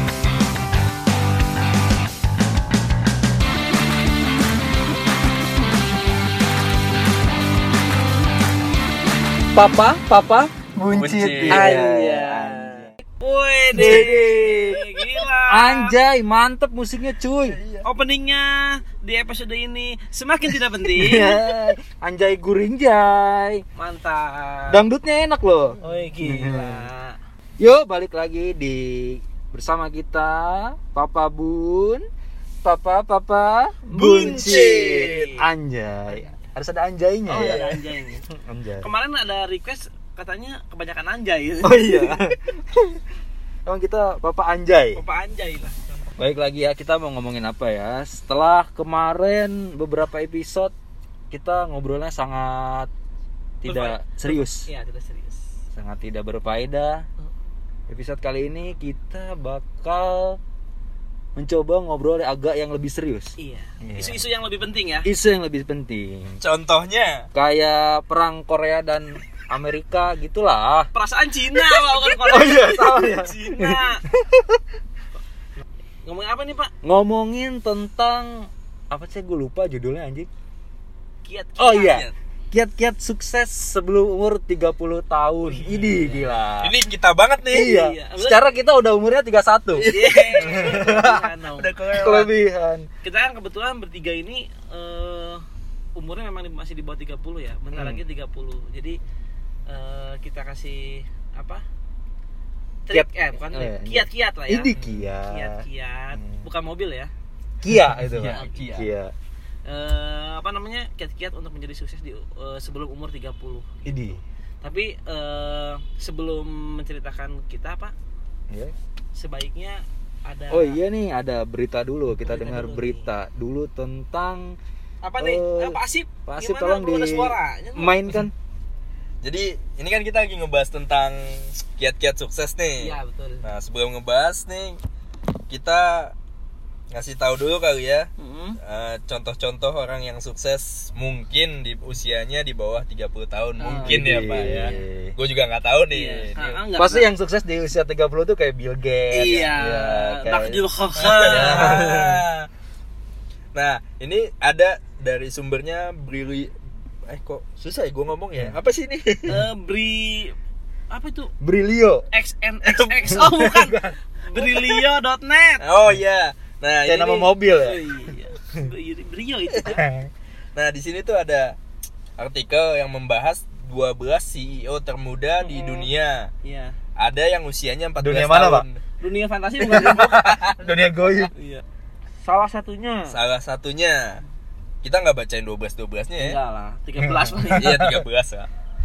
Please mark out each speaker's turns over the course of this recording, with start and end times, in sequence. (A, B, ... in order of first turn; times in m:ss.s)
0:09.5-0:12.9 A
0:11.0-0:11.8 B
0:11.5-0:16.0 C
0:13.7-0:14.7 B
0:13.8-0:14.8 A
0:15.5-0:17.6 A
0:17.4-0:17.9 B
0:17.8-0:21.4 C
0:20.9-0:23.6 A
0:23.7-0:24.8 C
0:24.7-0:26.9 A
0:25.8-0:27.2 C
0:27.6-0:32.0 A
0:32.6-0:37.7 A
0:33.9-0:35.3 C
0:33.9-0:35.3 B
0:36.1-0:36.4 C
0:37.3-0:38.2 C
0:37.3-0:37.8 B
0:38.3-0:38.9 A
0:38.8-0:42.2 C
0:41.6-0:43.0 A
0:43.6-0:45.0 A
0:45.0-0:45.9 C
0:46.2-0:50.7 A
0:51.3-0:52.9 A
0:53.6-0:54.6 A
0:53.6-0:55.4 C
0:55.7-0:57.0 A
0:57.9-1:00.4 A
1:01.4-1:04.2 A
1:03.4-1:05.1 C
1:05.0-1:06.4 A
1:06.4-1:07.3 B
1:07.3-1:10.9 A
1:10.9-1:14.0 C
1:11.6-1:14.6 A
1:16.0-1:16.7 C
1:16.8-1:20.3 A
1:21.2-1:22.0 C
1:21.6-1:26.8 A
1:21.8-1:22.1 B
1:25.5-1:26.4 C
1:26.6-1:27.8 B
1:27.5-1:31.2 A
1:27.5-1:28.4 C
1:29.8-1:32.3 B
1:29.8-1:31.7 C
1:31.9-1:32.9 A
1:33.0-1:35.4 C
1:36.0-1:39.0 C
1:37.7-1:38.0 A
1:39.7-1:41.6 C
1:42.9-1:44.7 C
1:42.9-1:45.6 A
1:44.7-1:45.1 B
1:45.2-1:47.1 C
1:46.2-1:46.4 A
1:47.6-1:49.1 A
1:48.0-1:48.9 B
1:48.3-1:48.8 C
1:49.6-1:54.0 C
1:53.8-1:54.2 A
1:54.6-1:57.9 C
1:59.1-2:00.8 C
2:00.5-2:04.6 A
2:02.2-2:03.1 C
2:05.0-2:08.1 C
2:05.2-2:08.3 A
2:09.2-2:14.8 B
2:12.8-2:13.5 C
2:15.5-2:16.1 B
2:16.9-2:18.1 B
2:18.2-2:18.6 C
2:18.6-2:26.6 B
2:23.6-2:24.1 C
2:23.8-2:25.1 A
2:25.9-2:27.1 C
2:26.8-2:30.6 A
2:29.1-2:32.1 C
2:30.9-2:32.5 B
2:31.2-2:32.2 A
2:33.5-2:36.5 B
2:37.1-2:39.4 B
2:39.3-2:40.3 C
2:40.9-2:41.3 C
2:41.4-2:42.1 A
2:42.1-2:45.6 C
2:42.6-2:43.4 B
2:43.1-2:43.9 A
2:44.3-2:44.8 B
2:45.6-2:47.3 B
2:46.8-2:47.8 A
2:47.5-2:49.9 C
2:49.6-2:50.1 A
2:50.5-2:51.6 B
2:52.2-2:56.3 B
2:55.4-2:55.9 C
2:56.4-2:56.8 C
2:57.0-2:58.8 B
2:58.0-2:58.6 A
2:59.0-3:00.3 C
2:59.6-3:01.3 A
2:59.8-3:00.6 B
3:01.3-3:01.6 C
3:02.2-3:03.2 C
3:03.1-3:04.2 B
3:04.8-3:06.4 B
3:06.2-3:07.8 C
3:07.0-3:08.0 A
3:07.5-3:08.5 B